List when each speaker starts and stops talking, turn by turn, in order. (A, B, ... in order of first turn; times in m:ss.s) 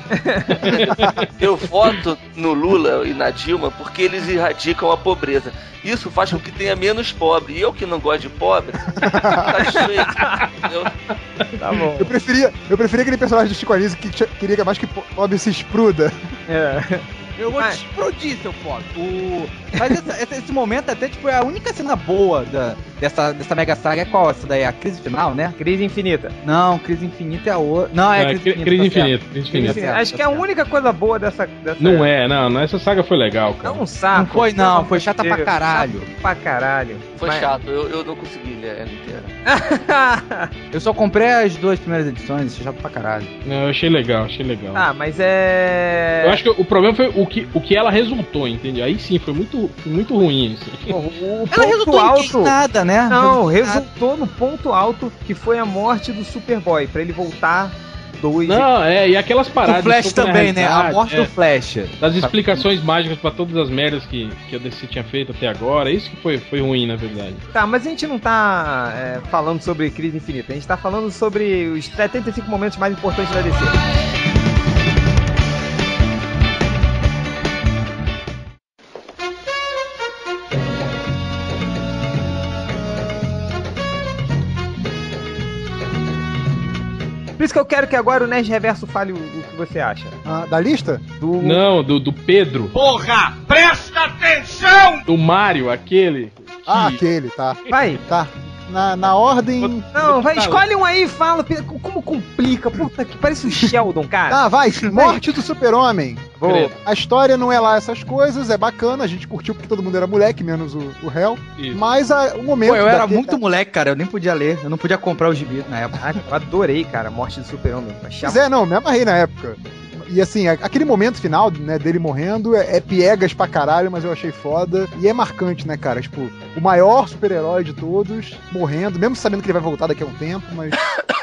0:00.1-0:00.6 A
0:00.6-0:01.1 B
0:00.6-0:10.9 C
0:00.9-0:01.2 D
0:09.0-0:09.6 D
0:09.8-0:10.5 A
0:11.6-0:12.1 A
0:12.0-0:16.2 D
0:16.5-0:17.8 A
0:17.4-0:25.6 E
0:25.6-0:26.4 A
0:26.4-0:30.4 E
0:28.1-0:29.8 B
0:29.5-0:32.1 A
0:31.8-0:33.8 B
0:33.6-0:37.5 A
0:34.1-0:36.1 E
0:37.2-0:39.3 C
0:39.5-0:40.5 A
0:40.7-0:43.3 E
0:43.4-0:44.8 B
0:44.7-0:46.4 A
0:46.2-0:51.0 B
0:50.9-0:52.6 A
0:51.5-0:53.8 E
0:53.1-0:58.7 A
0:58.5-1:01.3 B
0:59.6-1:02.7 E
1:02.0-1:07.4 B
1:07.5-1:13.8 A
1:27.4-1:30.2 A
1:30.2-1:31.0 D
1:31.2-1:31.6 A
1:31.4-1:32.7 B
1:32.7-1:35.0 F
1:35.1-1:37.0 B
1:36.7-1:39.8 D
1:37.7-1:38.0 A
1:39.6-1:40.6 B
1:39.9-1:45.2 A
1:43.5-1:43.7 D
1:44.3-1:53.4 D
1:46.4-1:46.7 A
1:46.4-1:46.7 B
1:52.6-1:56.2 E
1:56.0-1:58.4 A
1:58.2-2:10.8 D